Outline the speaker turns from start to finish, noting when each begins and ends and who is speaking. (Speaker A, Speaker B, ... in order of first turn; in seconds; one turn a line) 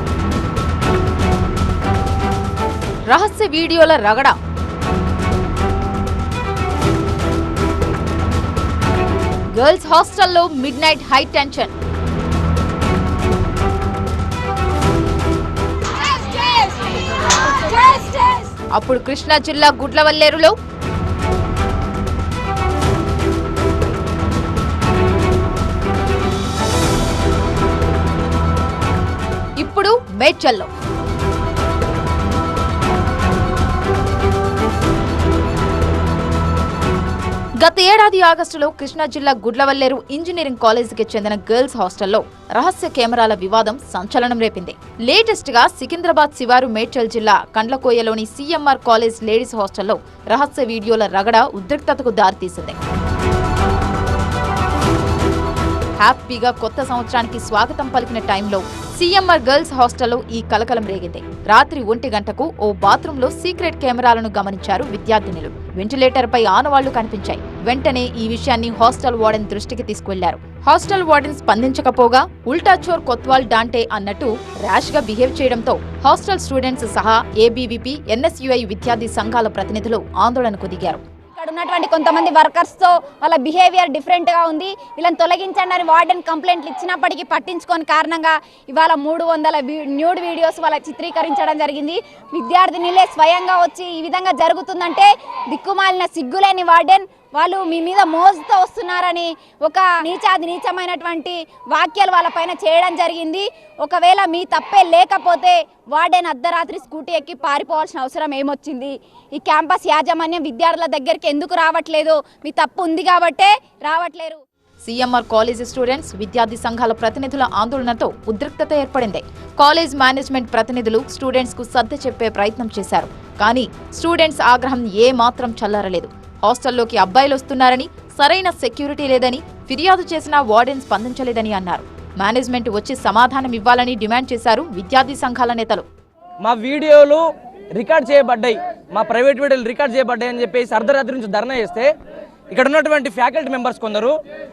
Speaker A: 3.1-4.4
Speaker A: 9.5-11.7
Speaker B: 16.1-16.7
Speaker B: 17.6-18.4
Speaker A: 18.7-20.5
Speaker A: 29.6-30.7
Speaker A: 37.6-52.8
Speaker A: 56.0-81.0
Speaker B: 81.3-114.4
Speaker A: 114.8-135.8
Speaker C: 136.4-137.2
Speaker C: 137.7-141.9
Speaker C: 142.5-144.1